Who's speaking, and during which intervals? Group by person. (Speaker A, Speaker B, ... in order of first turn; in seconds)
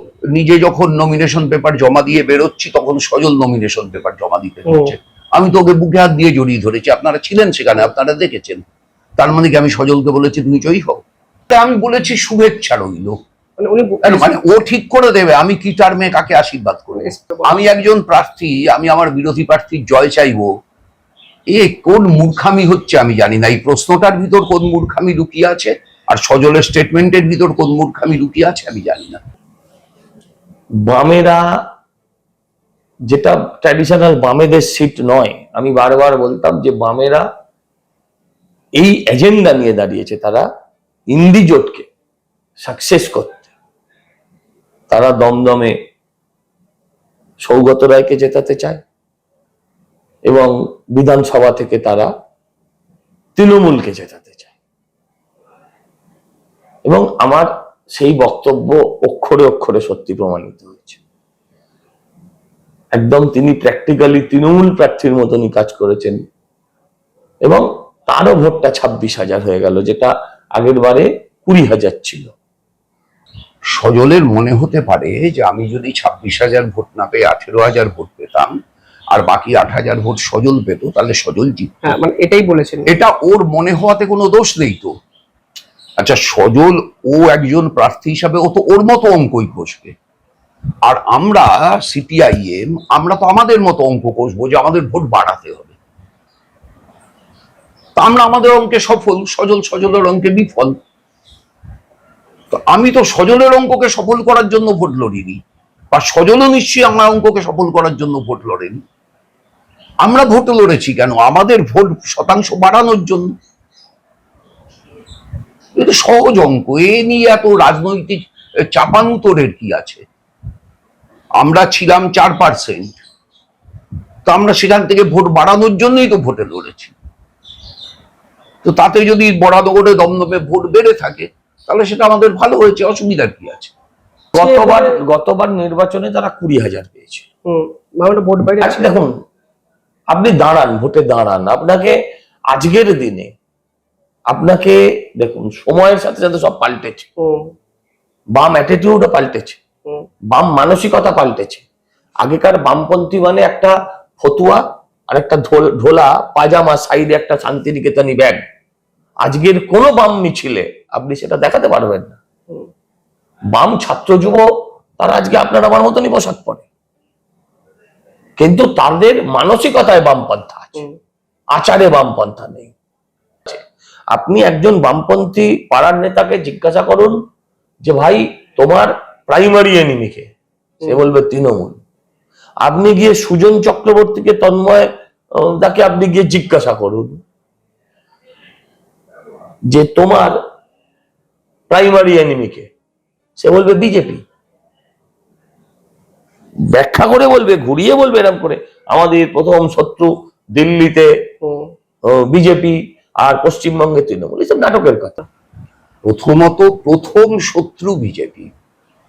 Speaker A: 0.3-8.6, 9.2-13.2, 14.0-20.5, 21.5-29.2, 73.7-78.5, 79.1-82.0, 82.9-84.9, 86.0-90.0, 90.8-95.8, 98.0-100.8, 102.5-105.4, 105.9-108.8, 110.0-113.3, 115.8-118.2, 118.7-120.0, 121.4-123.0, 124.3-126.9, 128.6-133.7, 206.1-208.5
Speaker B: 4.7-5.0, 13.6-14.4, 16.9-17.6, 81.8-82.9, 134.3-134.9, 137.5-139.0, 147.2-147.5, 201.4-201.7
Speaker C: 30.8-31.4, 33.1-37.2, 38.8-40.5, 41.1-41.9, 42.6-43.5, 44.9-45.8, 47.4-48.8, 50.3-52.1, 53.4-54.5, 56.9-61.0, 63.0-66.2, 67.5-72.3, 134.3-137.2, 138.6-139.1, 140.1-142.0, 142.5-143.3, 144.3-147.1, 148.3-149.6, 150.3-151.6, 152.2-158.4, 159.2-162.2, 163.5-164.5, 165.0-166.7, 168.4-170.9, 171.6-172.7, 174.1-177.2, 177.8-180.3, 180.8-181.8, 182.6-187.2, 189.7-190.4, 191.7-192.7, 193.4-194.2, 196.7-201.1, 202.1-205.2